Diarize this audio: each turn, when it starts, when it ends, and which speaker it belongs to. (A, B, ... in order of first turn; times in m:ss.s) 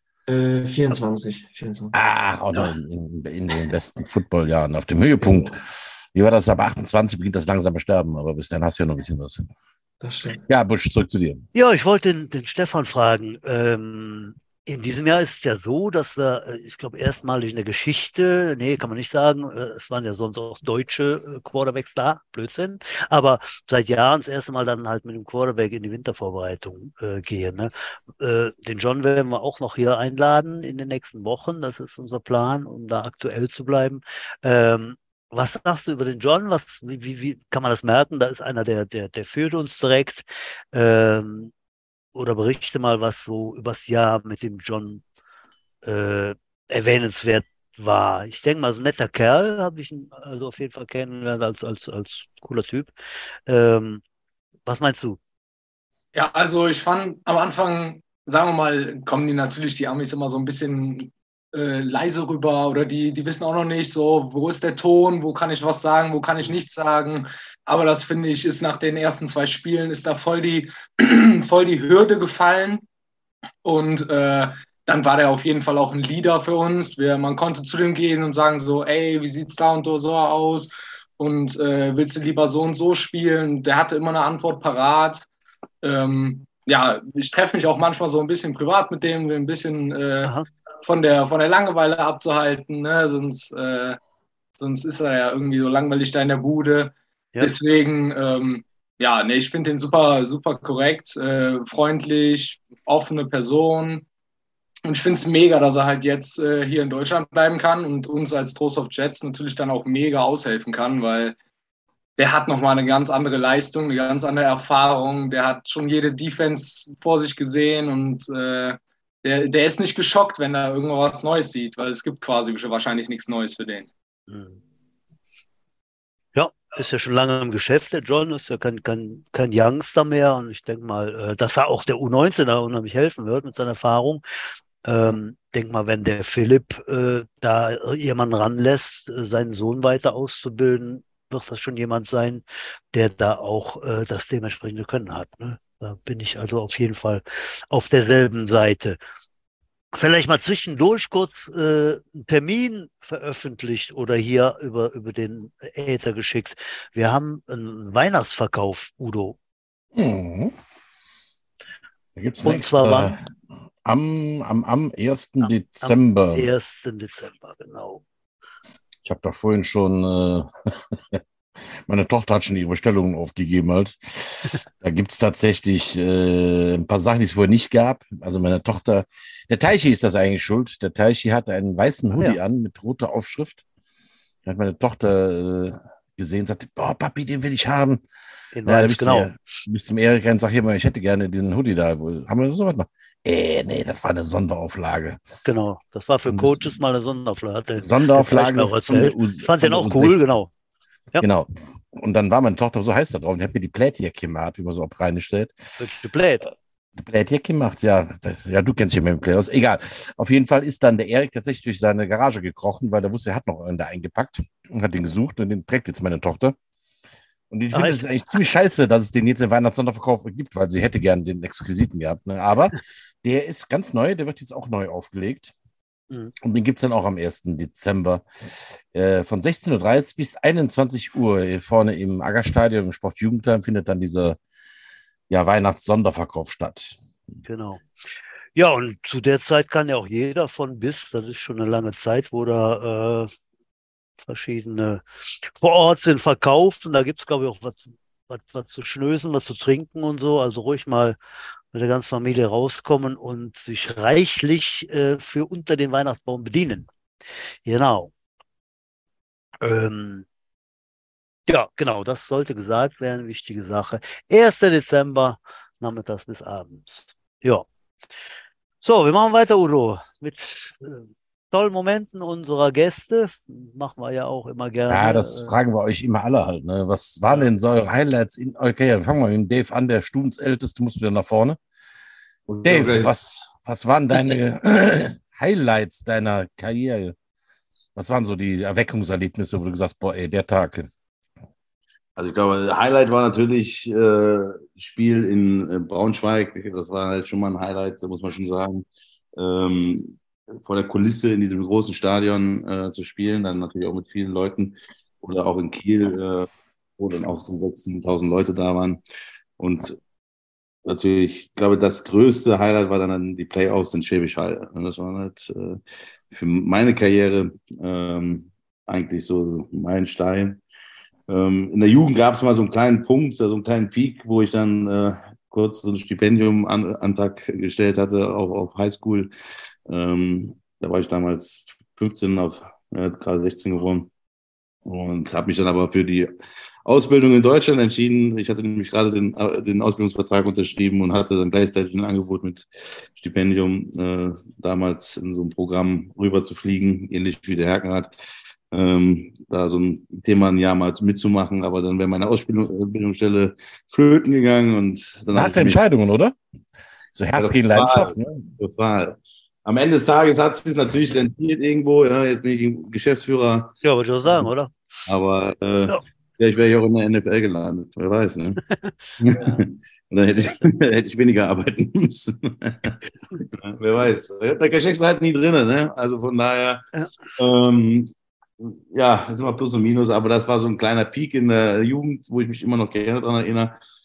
0:00.3-0:01.9 A
0:01.9-0:09.4 B
0:10.0-0:10.4 A
0:10.5-0:11.4 B
0:11.5-0:41.5 C
0:42.1-0:45.0 C
0:45.8-0:52.9 C
0:53.5-0:54.0 C
0:54.6-0:55.2 C
0:56.1-1:12.8 D
1:13.6-1:25.3 D
1:25.8-1:34.0 D
1:34.6-1:44.0 D
1:44.8-1:51.4 D
1:52.2-2:03.9 D
2:04.3-2:04.6 C
2:06.3-2:14.2 C
2:14.8-2:29.0 C
2:29.9-2:39.4 C
2:39.9-2:40.5 B
2:42.2-2:43.2 B
2:42.4-2:43.1 C
2:43.8-2:46.5 B
2:45.4-2:48.0 C
2:49.0-2:51.2 B
2:51.8-3:03.6 B
3:04.4-3:08.0 B
3:08.5-3:09.3 C
3:08.6-3:15.2 B
3:15.4-3:20.5 C
3:16.3-3:16.7 B
3:17.8-3:20.2 B
3:21.2-3:25.6 B
3:25.8-3:26.4 C
3:27.0-3:36.5 B
3:37.5-3:45.5 B
3:37.7-3:38.0 C
3:46.4-3:48.2 B
3:48.9-3:54.4 B
3:55.3-3:57.0 B
3:57.4-3:57.8 C
3:58.6-4:03.3 C
4:04.2-4:11.2 C
4:11.7-4:16.9 C
4:17.6-4:18.1 C
4:19.6-4:20.2 C
4:21.5-4:27.6 C
4:28.8-4:35.6 C
4:34.9-4:41.6 B
4:42.5-4:43.1 E
4:42.6-4:47.1 B
4:48.0-4:50.9 B
4:52.2-4:58.8 E
4:59.4-5:09.0 E
5:09.6-5:10.0 E
5:10.8-5:15.8 E
5:16.3-5:20.6 E
5:21.3-5:29.3 E
5:29.9-5:34.1 E
5:34.8-5:36.3 E
5:36.8-5:48.1 E
5:48.7-5:55.8 E
5:55.3-5:56.4 B
5:57.1-5:58.5 B
5:57.4-6:03.8 E
6:03.8-6:04.7 C
6:05.1-6:08.6 E
6:08.7-6:09.6 C
6:09.2-6:16.8 E
6:17.4-6:23.8 E